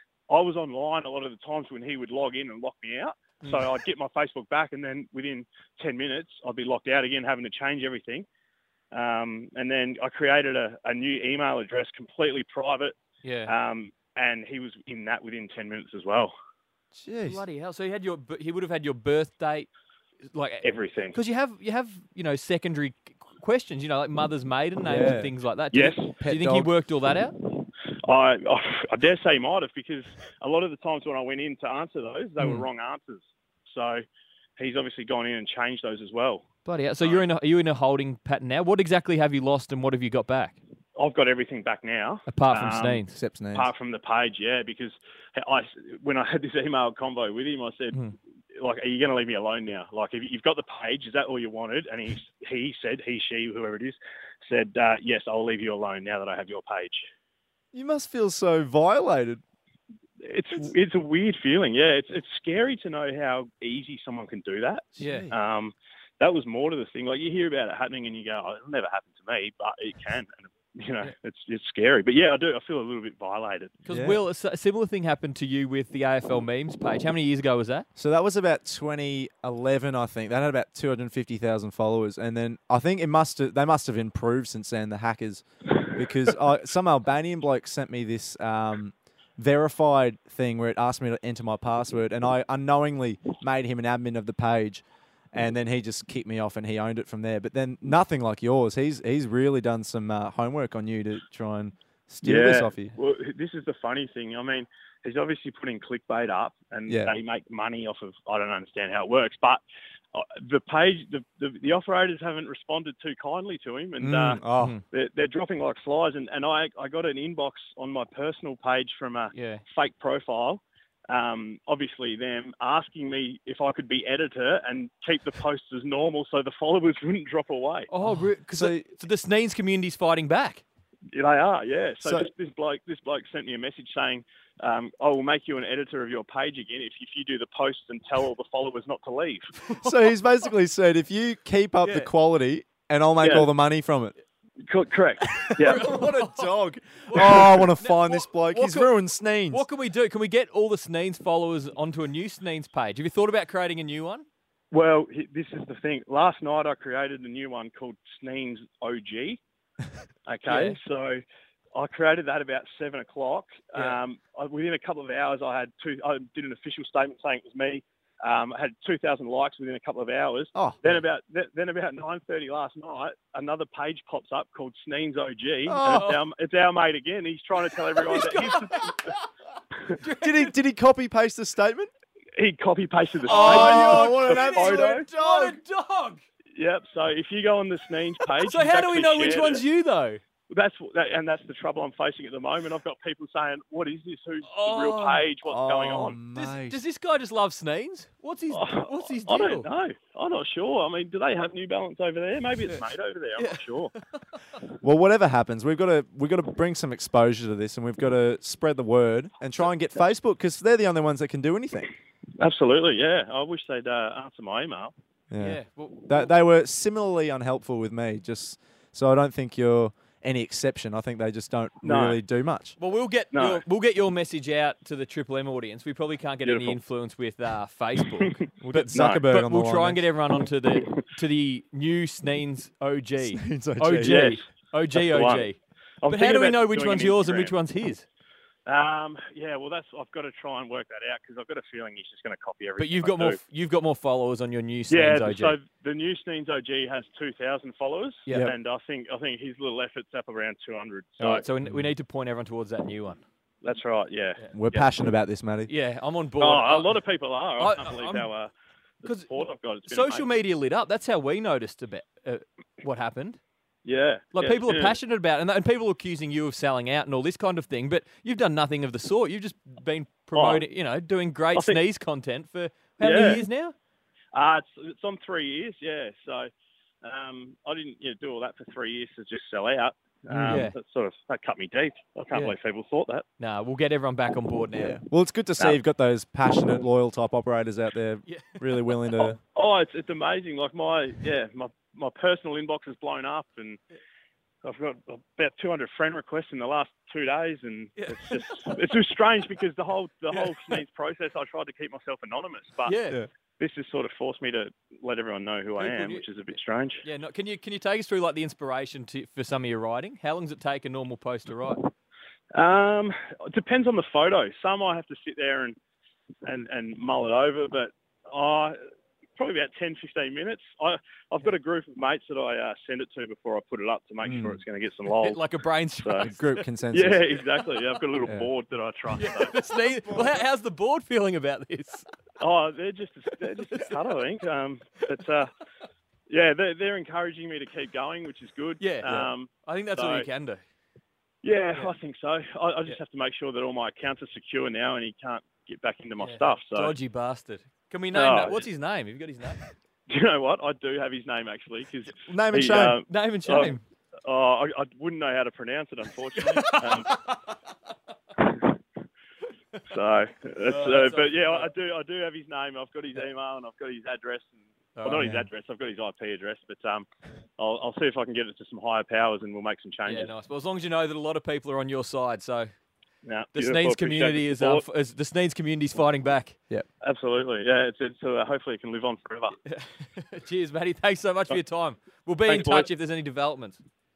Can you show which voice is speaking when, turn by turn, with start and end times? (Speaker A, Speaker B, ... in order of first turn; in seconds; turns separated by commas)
Speaker A: 0.3-8.2, Speaker A: 8.9-16.3, Speaker B: 13.2-13.5, Speaker C: 17.0-17.4, Speaker B: 17.2-19.7, Speaker B: 20.3-27.4, Speaker A: 20.6-21.1, Speaker C: 24.8-25.3, Speaker A: 25.7-26.1, Speaker C: 26.2-26.7, Speaker A: 27.5-34.0, Speaker B: 32.4-32.6, Speaker A: 34.6-36.5, Speaker B: 36.6-40.6, Speaker A: 37.0-37.3, Speaker A: 41.0-48.0, Speaker B: 42.3-43.2, Speaker C: 43.1-43.7, Speaker A: 48.5-57.1, Speaker C: 57.7-59.4, Speaker A: 60.2-73.8, Speaker B: 65.0-65.3, Speaker C: 65.0-65.3, Speaker B: 73.8-77.9, Speaker C: 73.9-74.2, Speaker C: 77.9-102.9, Speaker A: 102.2-109.6, Speaker C: 106.9-107.1, Speaker A: 110.1-127.9, Speaker C: 114.0-114.8, Speaker B: 114.6-114.8, Speaker B: 119.3-119.6, Speaker B: 127.9-130.6, Speaker C: 128.5-128.8, Speaker A: 131.1-139.5, Speaker C: 132.0-132.3, Speaker B: 139.7-139.9, Speaker C: 139.8-144.1, Speaker B: 141.8-142.1, Speaker A: 143.2-143.5, Speaker A: 144.7-145.8, Speaker C: 145.3-149.6, Speaker B: 145.6-146.5, Speaker B: 147.1-148.9, Speaker B: 149.5-154.2, Speaker A: 154.7-159.4, Speaker A: 160.2-161.2, Speaker B: 160.5-160.8, Speaker A: 161.7-179.1, Speaker C: 170.5-170.8, Speaker C: 175.7-176.1, Speaker B: 175.8-176.2, Speaker B: 177.9-179.3, Speaker B: 179.9-180.5, Speaker C: 180.2-181.9, Speaker A: 182.3-185.0, Speaker B: 183.2-186.2, Speaker C: 183.3-185.6, Speaker A: 186.5-189.6, Speaker B: 188.4-190.2, Speaker A: 190.5-196.2, Speaker B: 194.4-195.2, Speaker C: 195.4-196.8, Speaker B: 196.3-199.7, Speaker A: 198.5-203.9, Speaker B: 203.4-204.2, Speaker C: 204.8-211.9, Speaker A: 212.4-214.9, Speaker C: 215.3-222.7, Speaker B: 215.4-216.3, Speaker A: 221.8-222.2, Speaker B: 222.8-238.0, Speaker A: 223.3-223.6, Speaker A: 226.4-226.8, Speaker A: 228.2-229.2, Speaker C: 228.6-230.1, Speaker C: 233.3-234.3, Speaker A: 234.0-235.5, Speaker A: 236.0-237.5, Speaker A: 238.7-243.4, Speaker B: 242.8-245.6, Speaker A: 244.9-251.4, Speaker B: 251.2-253.2, Speaker C: 251.6-251.9, Speaker A: 253.6-254.5, Speaker C: 254.5-255.7, Speaker B: 255.7-257.0, Speaker A: 256.4-258.5, Speaker B: 257.6-258.3, Speaker A: 259.0-260.3, Speaker B: 259.0-259.3, Speaker B: 259.9-263.4, Speaker A: 263.8-265.0, Speaker B: 264.3-273.7, Speaker A: 270.3-270.6, Speaker A: 271.5-271.8, Speaker A: 273.0-273.4, Speaker A: 274.3-276.5, Speaker A: 277.0-283.2, Speaker C: 280.3-280.7, Speaker B: 280.4-280.7, Speaker B: 283.4-285.0, Speaker C: 284.8-289.4, Speaker B: 288.2-288.6, Speaker A: 289.5-293.8, Speaker A: 294.6-303.0, Speaker B: 298.0-298.8, Speaker B: 302.8-303.2, Speaker A: 303.6-307.0, Speaker B: 305.8-306.2, Speaker B: 307.0-311.9, Speaker A: 312.5-315.8, Speaker A: 316.4-318.8, Speaker A: 319.4-325.4, Speaker C: 324.2-324.6, Speaker B: 325.1-326.6, Speaker A: 326.0-326.3, Speaker C: 326.2-327.2, Speaker A: 326.9-329.6, Speaker B: 329.1-332.0, Speaker C: 329.8-330.4, Speaker A: 332.4-335.5, Speaker A: 336.3-340.3, Speaker B: 338.8-340.6, Speaker A: 341.4-346.9, Speaker B: 346.2-349.6, Speaker A: 348.1-348.6, Speaker A: 350.1-357.2, Speaker C: 352.2-353.0, Speaker B: 353.1-353.8, Speaker B: 356.4-357.5, Speaker A: 358.4-358.7, Speaker A: 359.8-367.1, Speaker B: 360.6-361.7, Speaker B: 364.9-365.3, Speaker C: 365.1-365.4, Speaker A: 367.6-370.3, Speaker B: 370.0-372.7, Speaker A: 373.2-374.8, Speaker B: 373.5-376.6, Speaker A: 377.0-379.5, Speaker B: 379.7-383.8, Speaker A: 382.5-382.9